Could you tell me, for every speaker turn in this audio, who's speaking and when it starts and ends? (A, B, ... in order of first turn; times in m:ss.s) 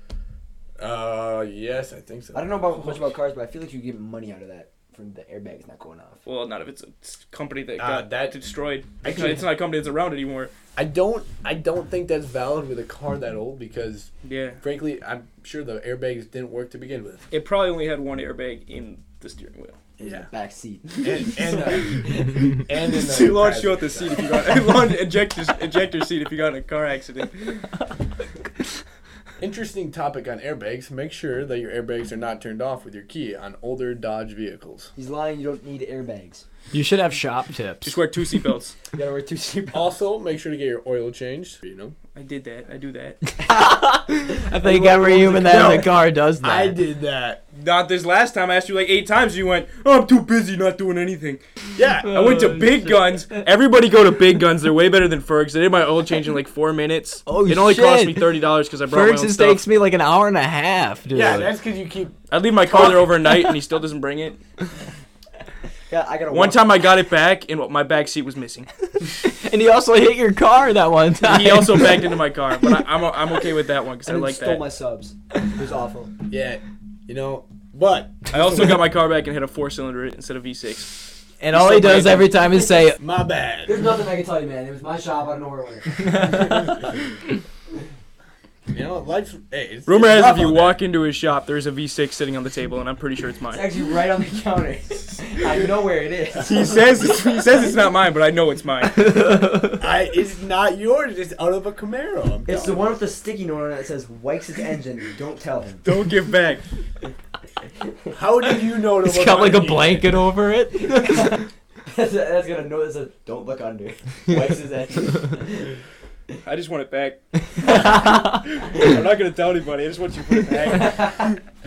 0:00.8-0:02.5 A
0:02.3-0:06.2 B
0:06.2-0:10.5 C
0:07.8-0:08.4 A
0:09.0-0:09.4 A
0:10.8-0:17.3 A
0:14.2-0:14.6 C
0:17.3-0:19.8 C
0:20.0-0:22.2 B
0:20.0-0:20.3 A
0:21.0-0:24.3 A
0:21.7-0:27.7 C
0:29.4-0:34.9 A
0:35.0-0:36.4 B
0:36.7-0:38.0 D
0:37.8-0:38.7 C
0:38.9-0:39.9 B
0:39.7-0:42.0 A
0:42.1-0:43.2 C
0:43.4-0:46.8 D
0:44.6-0:45.8 B
0:45.4-0:47.4 A
0:47.5-0:51.4 C
0:51.8-0:52.6 A
0:52.0-0:53.3 D
0:52.1-0:59.6 C
0:57.3-1:01.5 D
1:01.1-1:02.2 A
1:02.3-1:04.4 C
1:05.9-1:06.6 B
1:06.3-1:08.7 C
1:09.2-1:12.1 D
1:11.2-1:14.6 C
1:14.0-1:16.1 B
1:16.3-1:18.7 A
1:18.3-1:22.5 C
1:21.4-1:23.0 D
1:23.0-1:23.8 A
1:23.6-1:27.0 B
1:28.7-1:30.8 A
1:29.8-1:33.7 C
1:33.5-1:37.1 B
1:36.4-1:39.2 C
1:39.0-1:39.8 D
1:39.8-1:43.0 A
1:42.4-1:45.8 B
1:45.8-1:46.6 C
1:48.1-1:50.2 A
1:49.0-1:51.4 D
1:50.9-1:55.7 B
1:56.4-2:01.3 C
2:00.7-2:01.3 B